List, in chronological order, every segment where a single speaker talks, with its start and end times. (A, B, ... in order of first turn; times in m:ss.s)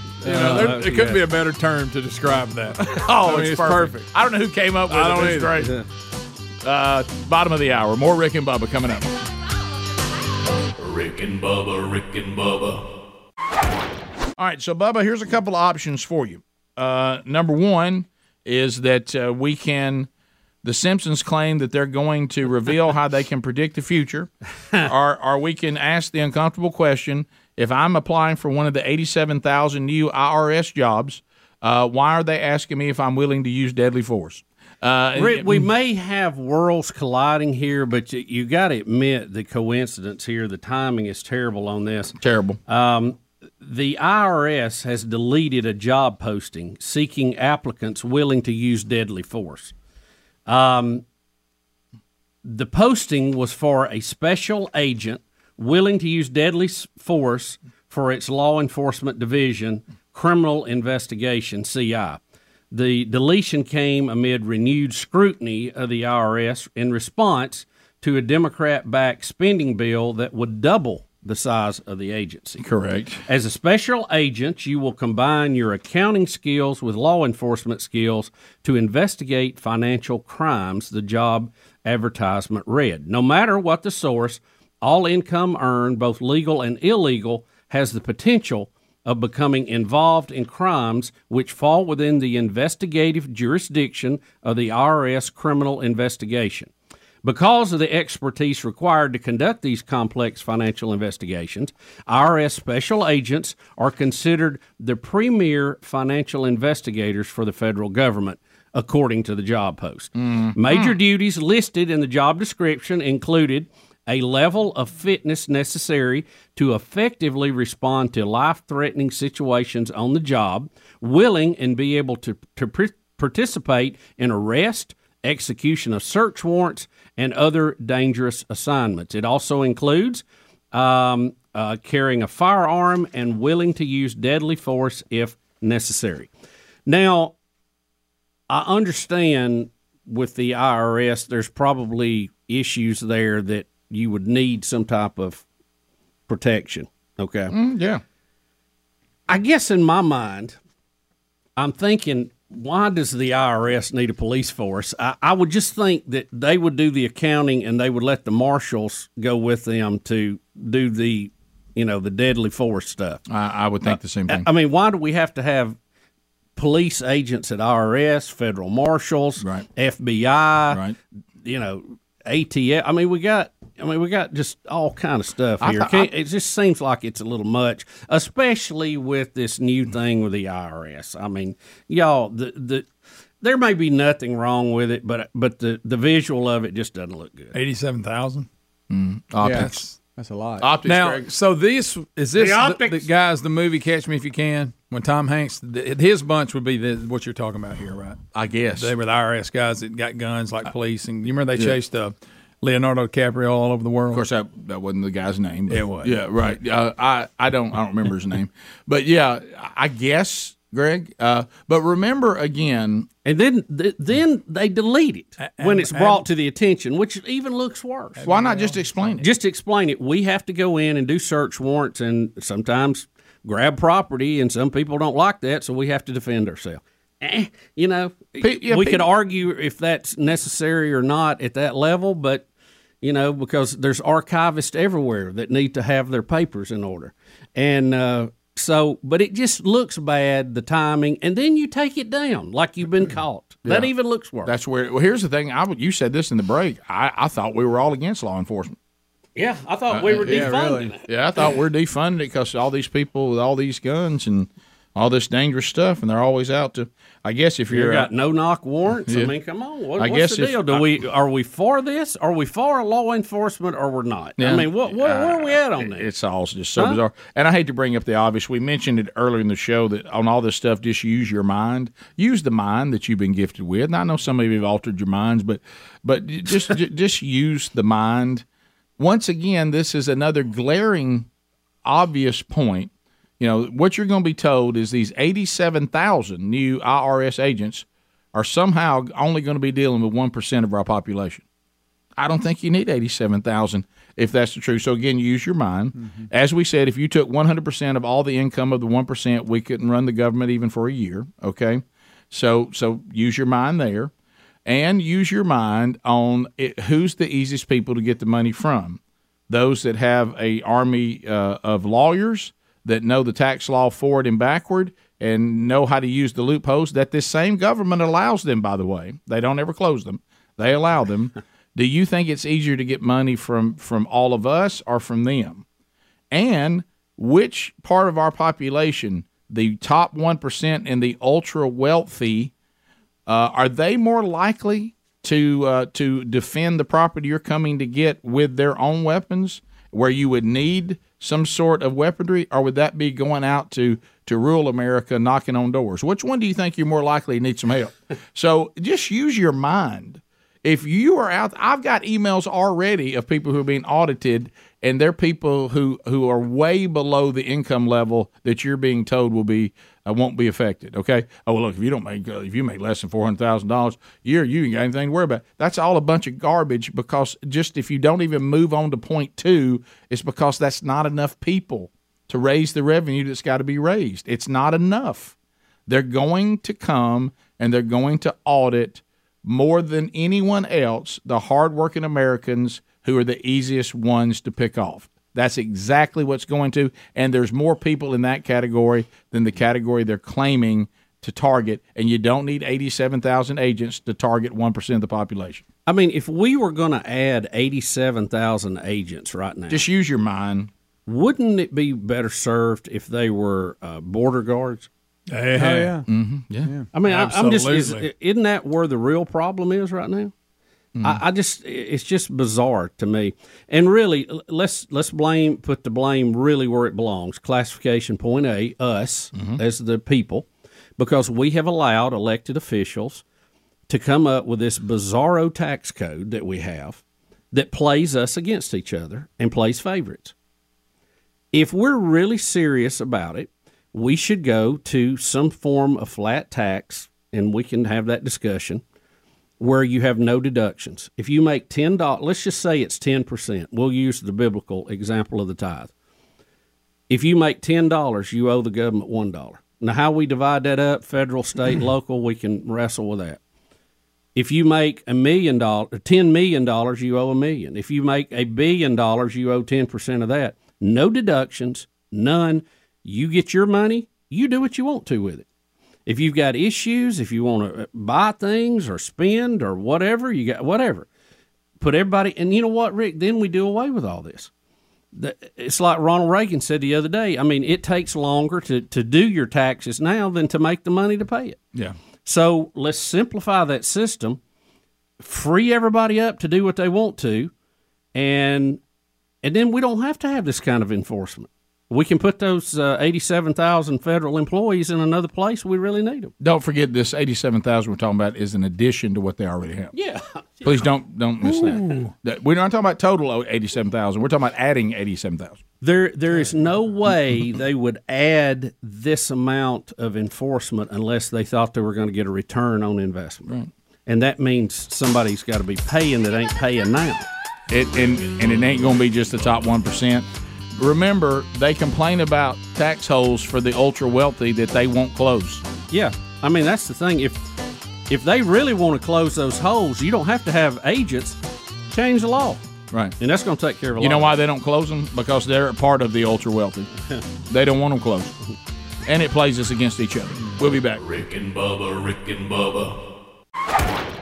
0:00.2-0:01.2 A
0:00.2-0:04.1 B
0:02.9-0:05.7 C
0:04.9-0:05.6 B
0:05.6-0:05.9 A
0:06.6-0:09.1 C
0:10.8-0:12.8 D
0:14.4-0:20.1 C
0:20.6-0:35.7 C
0:35.2-0:42.2 A
0:42.2-0:42.6 C
0:42.7-0:49.7 A
0:50.5-0:51.0 A
0:52.4-1:02.2 A
1:02.7-1:12.6 A
1:12.6-1:13.2 C
1:13.3-1:36.7 A
1:37.2-2:16.3 A
1:50.2-1:51.0 C
2:16.9-2:17.3 A
2:18.5-2:25.4 A
2:26.3-2:27.5 A
2:27.5-2:28.0 C
2:29.3-2:30.6 A
2:31.6-2:43.2 A
2:43.3-2:44.5 C
2:43.8-2:45.8 A
2:46.6-2:50.8 A
2:49.4-2:49.6 C
2:50.7-2:51.0 C
2:51.4-3:02.9 A
2:55.6-2:56.1 C
3:03.4-3:07.6 A
3:07.5-3:08.5 B
3:08.9-3:09.8 C
3:09.4-3:10.7 E
3:09.5-3:10.0 B
3:10.6-3:11.3 C
3:10.8-3:18.2 B
3:12.4-3:13.0 A
3:18.3-3:18.9 C
3:18.8-3:24.3 B
3:24.1-3:33.1 C
3:25.7-3:26.2 B
3:33.2-3:38.2 A
3:35.4-3:36.3 B
3:38.2-3:38.9 B
3:38.2-3:39.3 C
3:39.2-3:52.5 A
3:48.4-3:49.1 C
3:53.0-4:04.5 A
4:03.6-4:03.9 C
4:04.4-4:08.8 C
4:09.4-4:11.6 A
4:09.9-4:10.5 C
4:10.2-4:10.9 E
4:11.1-4:18.1 C
4:17.7-4:26.1 A
4:20.0-4:20.9 C
4:24.4-4:38.4 C
4:26.8-4:27.0 A
4:39.0-4:41.3 C
4:41.8-4:51.4 C
4:52.2-5:04.1 C
4:56.0-4:56.2 E
5:04.7-5:25.6 C
5:26.3-5:32.5 C
5:33.3-6:15.3 C
6:15.9-6:35.6 C
6:35.9-6:39.8 A
6:39.7-6:40.7 C
6:41.1-6:44.9 A
6:45.3-6:46.0 B
6:45.6-6:46.1 E
6:46.1-6:46.7 C
6:46.9-6:50.3 A
6:47.0-6:48.1 B
6:51.0-7:00.5 A
6:59.4-6:59.6 C
7:01.0-7:03.2 A
7:03.9-7:07.0 A
7:07.5-7:10.3 A
7:11.5-7:18.8 A
7:19.6-7:25.9 A
7:27.1-7:33.4 A
7:34.4-7:45.4 A
7:46.1-7:51.1 A
7:51.8-7:54.5 A
7:55.1-8:01.6 A
8:02.2-8:04.4 A
8:05.2-8:07.5 A
8:08.2-8:08.8 A
8:09.4-8:16.3 A
8:16.4-8:19.9 C
8:19.9-8:20.9 A
8:20.6-8:25.6 C
8:21.5-8:22.0 A
8:25.8-8:33.5 A
8:34.1-8:37.3 A
8:37.7-8:45.6 C
8:45.9-8:47.4 A
8:48.1-8:51.4 A
8:51.9-8:52.6 A
8:53.2-8:54.4 A
8:54.0-8:56.9 C
8:57.5-8:58.4 C
8:59.1-9:01.0 C
9:00.4-9:00.7 E
9:00.9-9:03.0 D